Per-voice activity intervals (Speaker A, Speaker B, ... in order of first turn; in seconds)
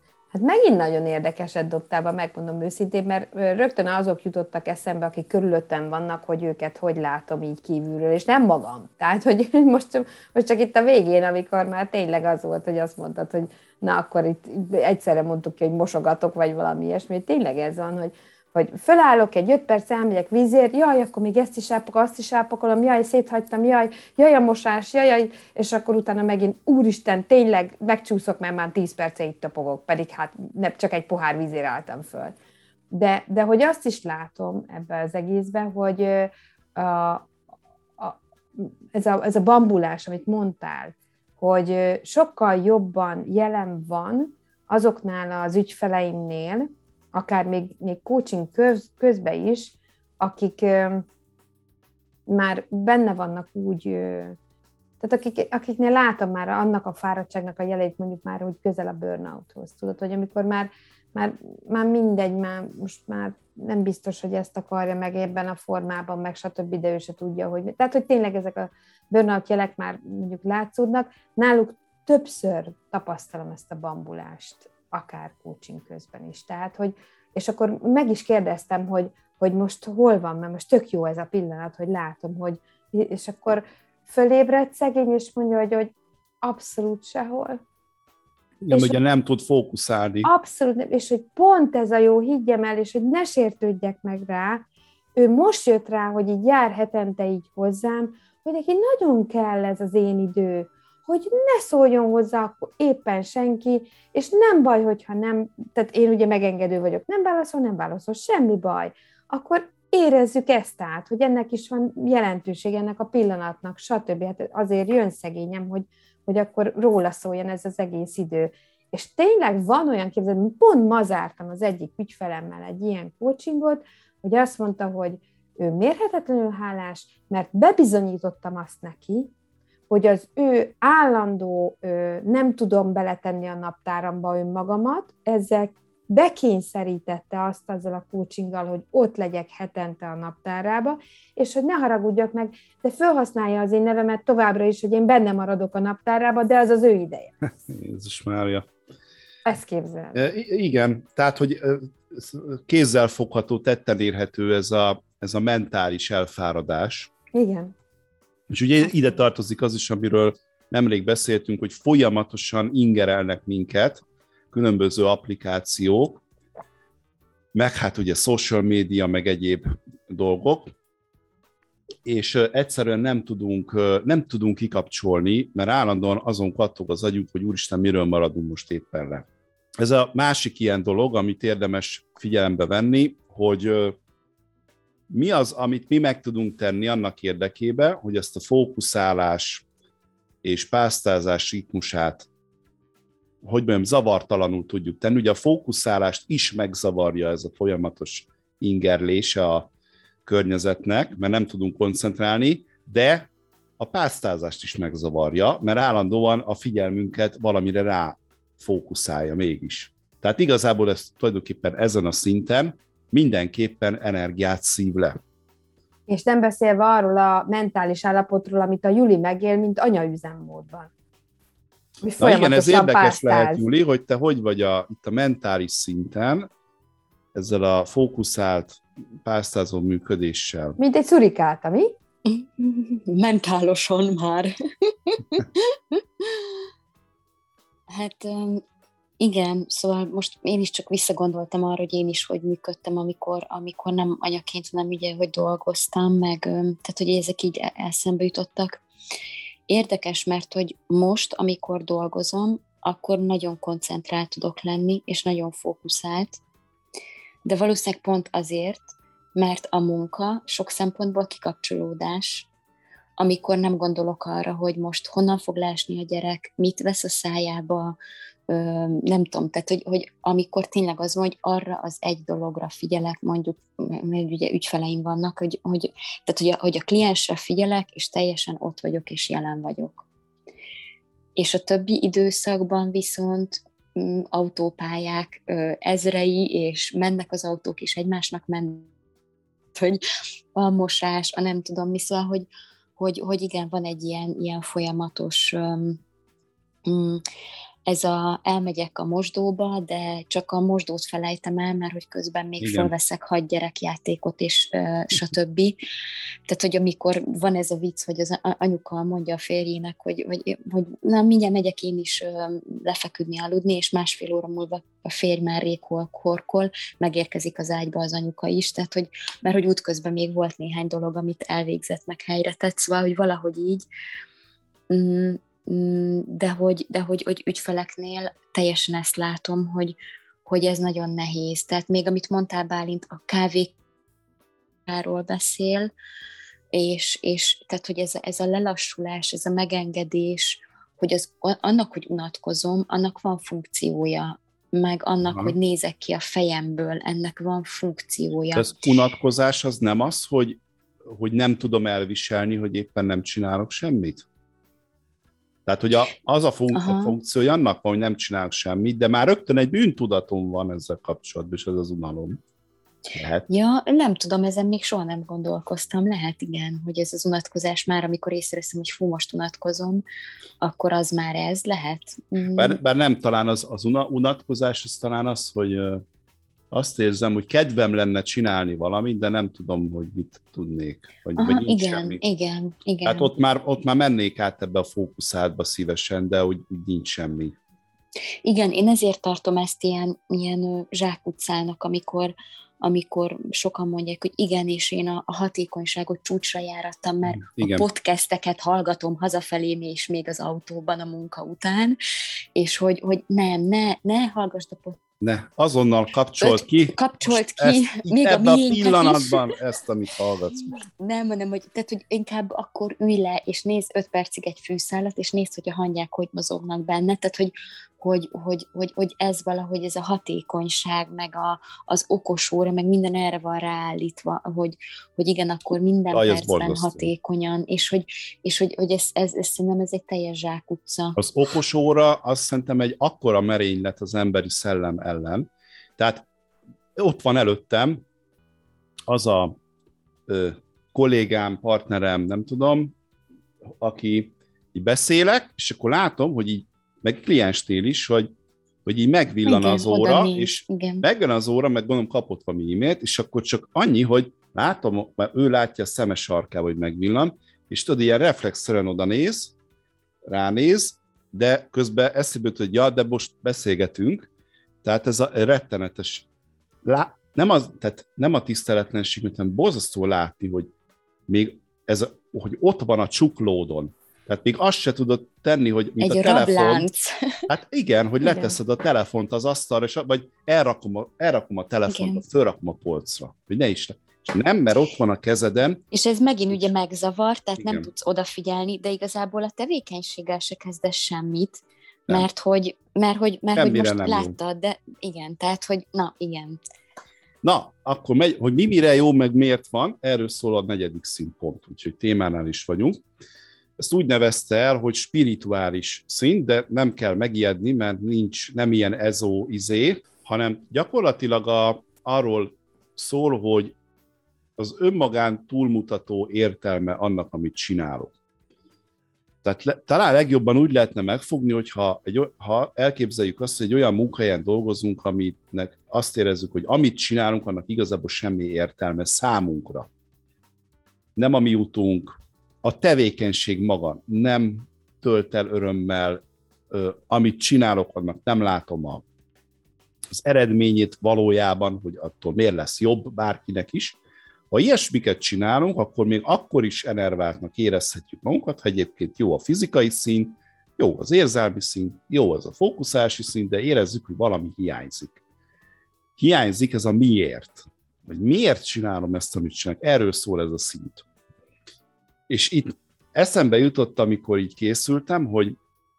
Speaker A: 0.3-32.3, 32.9-37.3, 38.0-51.0, 52.3-54.4, 55.0-85.9, 86.4-87.6, 88.7-89.0, 90.2-94.6, 95.2-129.3, 129.9-147.3, 149.4-150.2, 157.3-157.7, 216.1-220.9, 222.0-223.6, 230.8-231.9
Speaker B: 88.6-90.3, 147.4-148.7, 150.1-157.1, 158.5-166.2, 167.5-170.7, 172.0-179.2, 179.8-183.9, 185.1-189.6, 190.4-192.3, 193.4-199.7, 200.2-203.3, 203.8-215.2, 222.2-226.5, 227.3-230.8, 302.6-302.9, 345.2-345.5, 348.5-354.2, 355.6-362.4, 363.1-363.5, 372.6-376.0, 376.7-382.2, 383.0-387.6, 397.2-397.8, 405.2-410.7, 426.1-427.1, 431.2-436.2, 436.9-438.0, 439.1-439.6, 440.3-442.9, 443.7-448.3, 448.8-459.5, 460.3-464.3, 464.8-466.3, 466.8-470.7, 471.3-476.9, 477.5-485.8, 487.6-487.9, 493.5-494.3, 497.4-503.0, 503.8-513.7, 514.6-518.1, 519.4-529.9, 531.1-532.1, 532.6-539.0, 540.1-544.0, 544.5-555.2, 556.2-561.0, 562.3-565.5
Speaker C: 232.2-236.6, 237.9-238.6, 239.2-248.8, 249.7-256.4, 257.4-262.5, 263.2-267.9, 268.5-280.0, 281.4-288.9, 289.7-290.0, 290.5-296.0, 296.9-297.2, 297.9-305.8, 306.5-323.8, 324.9-333.7, 334.9-335.9, 336.7-348.8, 356.7-357.1, 363.5-370.0, 370.6-372.8, 381.4-383.3, 388.4-402.0, 402.6-405.0, 406.4-409.5, 410.7-431.2, 449.4-451.0, 476.0-477.4, 478.2-478.6, 481.9-482.2, 485.9-496.6